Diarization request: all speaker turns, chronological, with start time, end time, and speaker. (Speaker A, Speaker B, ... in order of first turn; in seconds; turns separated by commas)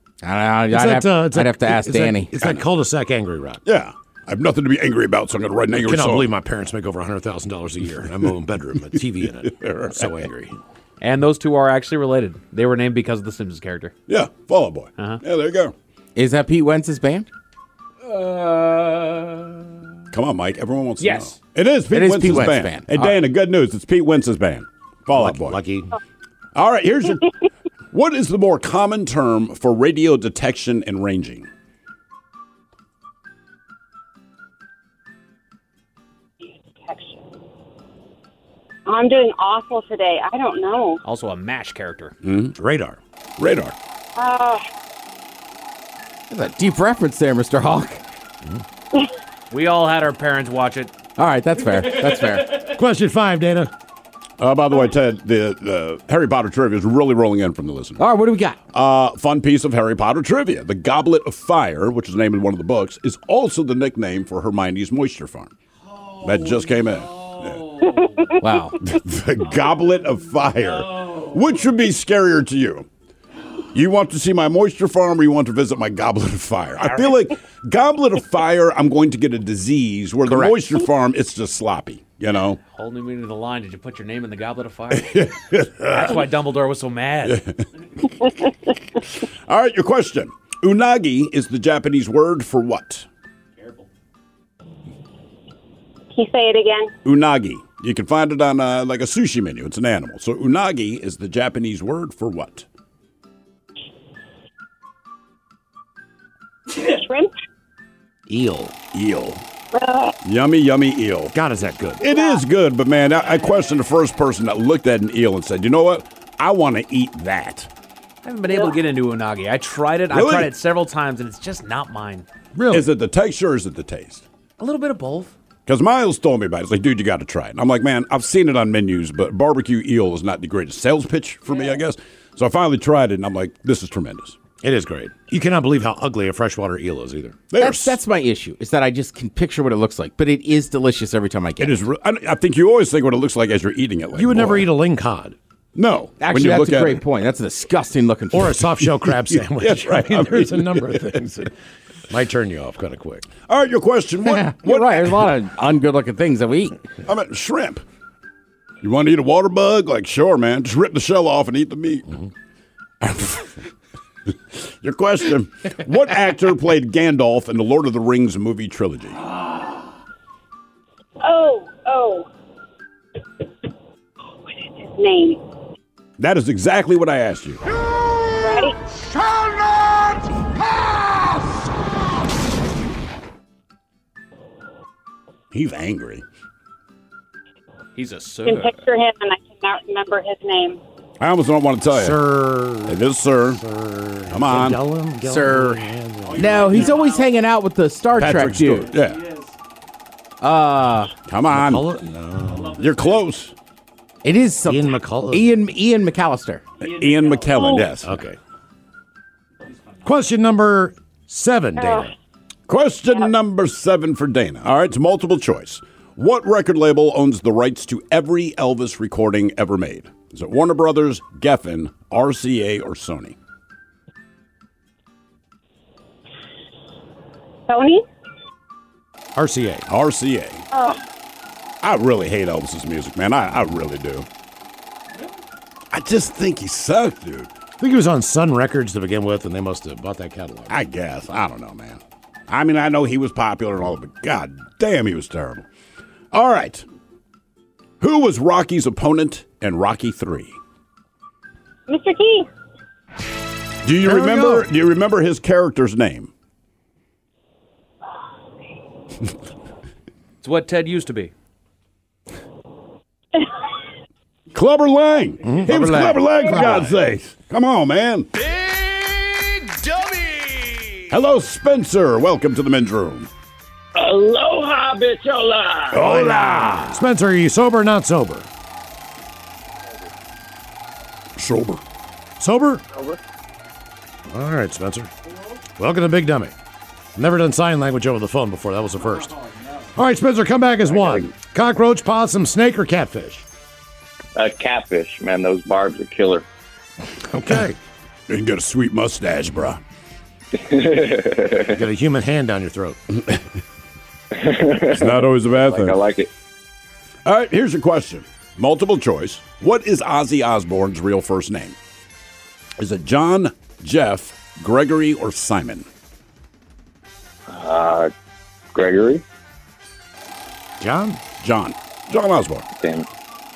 Speaker A: 0.2-2.3, Speaker B: 0.7-3.6, Speaker C: 3.6-6.3, Speaker B: 5.7-10.6, Speaker C: 9.6-10.1, Speaker D: 11.0-13.9, Speaker C: 14.1-15.7, Speaker A: 16.1-17.3, Speaker D: 18.1-19.4, Speaker C: 20.1-25.6, Speaker D: 21.0-21.4, Speaker A: 21.9-23.2, Speaker B: 25.1-25.9, Speaker C: 26.5-27.2, Speaker C: 27.9-31.5, Speaker E: 36.8-37.2, Speaker E: 38.9-41.0, Speaker D: 41.0-42.1, Speaker C: 42.2-42.5, Speaker B: 42.6-43.0, Speaker C: 43.4-43.8, Speaker E: 44.1-44.6, Speaker A: 46.3-48.0, Speaker D: 49.5-50.9, Speaker A: 51.2-52.7, Speaker B: 52.6-53.7, Speaker C: 54.4-58.0, Speaker A: 58.0-58.6, Speaker C: 58.7-65.5, Speaker C: 66.2-67.8, Speaker A: 68.4-68.8, Speaker C: 68.8-72.9, Speaker C: 73.7-82.6, Speaker A: 80.2-80.6, Speaker D: 82.7-85.2, Speaker C: 84.9-86.3, Speaker D: 85.9-87.4, Speaker C: 89.5-93.0, Speaker E: 96.1-96.9, Speaker C: 97.0-102.7, Speaker E: 106.8-107.3, Speaker B: 108.3-108.7, Speaker C: 108.9-109.4, Speaker E: 109.7-110.1, Speaker C: 110.2-111.3, Speaker B: 111.3-112.0, Speaker C: 112.0-117.7, Speaker D: 118.2-122.2, Speaker C: 120.1-120.5, Speaker B: 122.5-122.9, Speaker C: 122.7-124.2, Speaker D: 124.6-125.3, Speaker C: 125.7-134.4, Speaker B: 134.6-137.4, Speaker C: 137.5-138.0, Speaker A: 137.6-141.8, Speaker C: 141.6-144.7, Speaker B: 144.1-145.3, Speaker C: 145.8-147.0, Speaker A: 146.2-148.6, Speaker B: 148.3-151.5, Speaker C: 149.3-151.2, Speaker B: 152.1-153.3, Speaker C: 153.5-155.2, Speaker A: 154.2-156.8, Speaker C: 157.0-157.8, Speaker C: 158.8-162.1, Speaker C: 163.0-163.4, Speaker C: 164.6-169.2, Speaker E: 171.2-172.3, Speaker E: 174.6-175.4, Speaker C: 176.2-177.6, Speaker E: 178.4-178.8, Speaker C: 185.5-186.2, Speaker D: 187.9-188.8, Speaker E: 188.4-190.8, Speaker C: 191.2-192.2, Speaker B: 191.9-193.0, Speaker C: 192.8-193.6, Speaker B: 193.6-196.9, Speaker C: 194.3-194.8, Speaker A: 195.2-199.0, Speaker C: 198.2-199.2, Speaker A: 200.4-201.1, Speaker C: 201.2-201.8, Speaker B: 201.5-202.9, Speaker C: 202.8-203.5, Speaker A: 204.2-206.6, Speaker B: 204.6-205.5, Speaker C: 206.8-208.2, Speaker B: 207.8-208.4, Speaker B: 210.0-212.1, Speaker E: 211.8-212.1, Speaker C: 212.7-223.3, Speaker E: 227.7-228.0, Speaker B: 229.3-229.8, Speaker C: 229.9-230.6, Speaker E: 230.7-231.0, Speaker C: 231.8-234.3, Speaker C: 235.9-237.5, Speaker B: 237.8-240.7, Speaker C: 240.7-245.6, Speaker C: 246.3-246.8, Speaker C: 248.0-250.6, Speaker E: 251.9-252.5, Speaker C: 253.8-256.3, Speaker B: 254.0-254.7, Speaker D: 260.4-261.3, Speaker C: 264.5-268.3, Speaker B: 265.4-266.1, Speaker A: 265.7-266.9, Speaker C: 271.1-273.3, Speaker F: 273.9-276.3, Speaker C: 275.9-277.0, Speaker B: 276.9-278.5, Speaker C: 281.4-281.8, Speaker B: 282.4-282.8, Speaker B: 284.3-285.1, Speaker B: 285.8-286.5, Speaker B: 287.1-289.4, Speaker B: 289.9-293.4, Speaker G: 290.9-291.3, Speaker G: 294.3-296.4, Speaker B: 297.3-297.8, Speaker C: 298.3-299.8, Speaker G: 300.6-301.8, Speaker B: 301.7-303.0, Speaker G: 304.3-306.3, Speaker C: 304.9-306.0, Speaker C: 307.2-311.8, Speaker C: 312.8-315.9, Speaker G: 317.5-318.1, Speaker G: 318.7-319.2, Speaker B: 320.8-321.2, Speaker C: 321.4-322.6, Speaker G: 322.8-323.1